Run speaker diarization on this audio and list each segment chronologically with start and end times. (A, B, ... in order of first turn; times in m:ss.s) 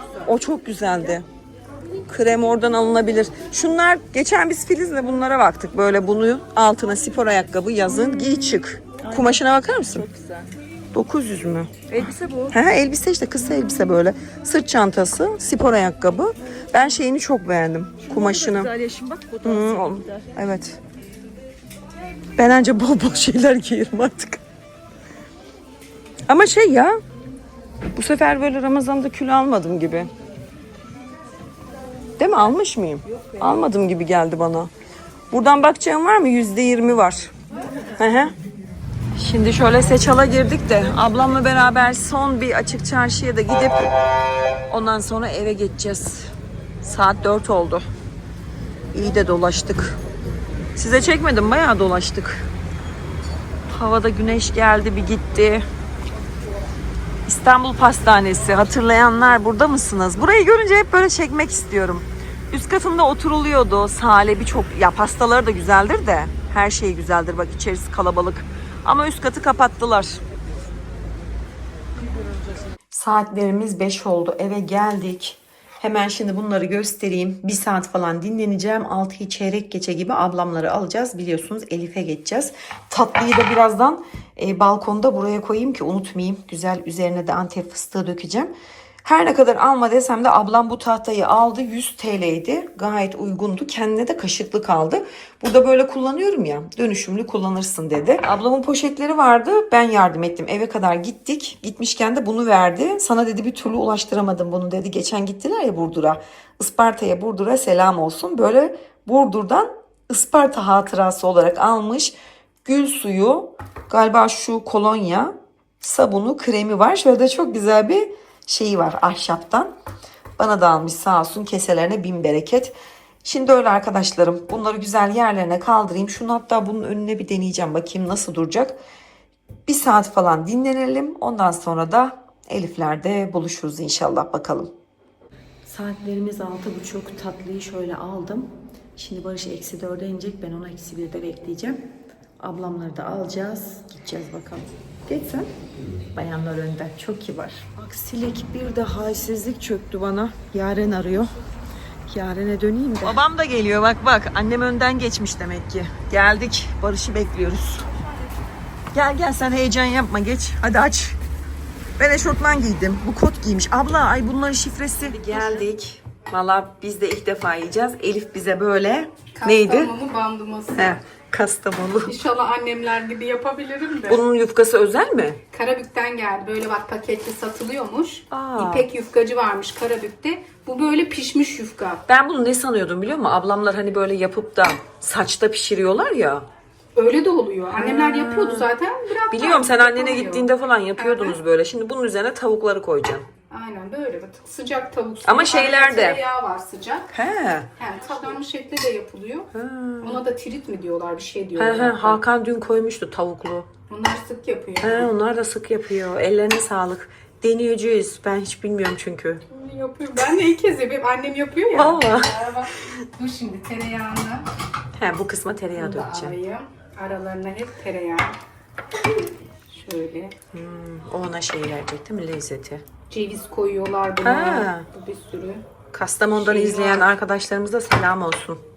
0:00.2-0:01.3 A
0:02.1-0:10.1 A
0:09.0-0:10.5 B
0:10.9-0:18.8 A
0:12.0-0:12.5 B
0:18.1-0:20.1 B
0:19.4-0:20.8 A
0:22.4-0:24.4 A
0:26.3-0:27.0 A
0:27.9-0:30.1 A
0:32.2-0:34.7 A
0:35.3-0:37.3 A
0:37.9-0:38.3 A
0:39.1-0:43.9 A
0:44.7-0:46.3 A
0:46.8-0:47.8 A
0:48.9-0:50.0 A
0:50.8-0:52.5 A
0:53.7-0:55.6 A
0:57.3-1:10.2 A
1:12.9-1:28.5 A
1:29.0-1:59.7 A
2:00.4-2:08.8 A
2:09.7-2:14.7 A
2:15.6-2:21.8 A
2:22.4-2:25.5 A
2:26.1-2:31.4 A
2:32.1-2:37.9 A
2:38.9-2:41.2 A
2:42.0-2:49.9 A
2:49.3-2:51.0 C
2:50.7-2:52.2 A
2:52.0-2:54.2 C
2:54.1-2:55.4 A
2:55.5-3:02.0 C
2:58.3-2:58.9 A
3:02.1-3:06.4 A
3:07.0-3:11.4 C
3:07.7-3:08.7 A
3:09.3-3:13.3 A
3:13.5-3:17.1 C
3:15.2-3:16.2 A
3:17.1-3:17.7 A
3:17.8-3:19.5 C
3:19.5-3:20.2 A
3:20.0-3:22.2 C
3:21.6-3:23.7 A
3:23.9-3:25.1 C
3:24.8-3:29.4 A
3:29.5-3:34.5 C
3:31.7-3:32.5 A
3:34.9-3:36.4 A
3:35.7-3:38.4 C
3:39.7-3:40.4 C
3:40.5-3:42.8 A
3:43.1-3:45.7 C
3:44.2-3:44.9 A
3:45.9-3:48.6 A
3:46.3-3:47.1 C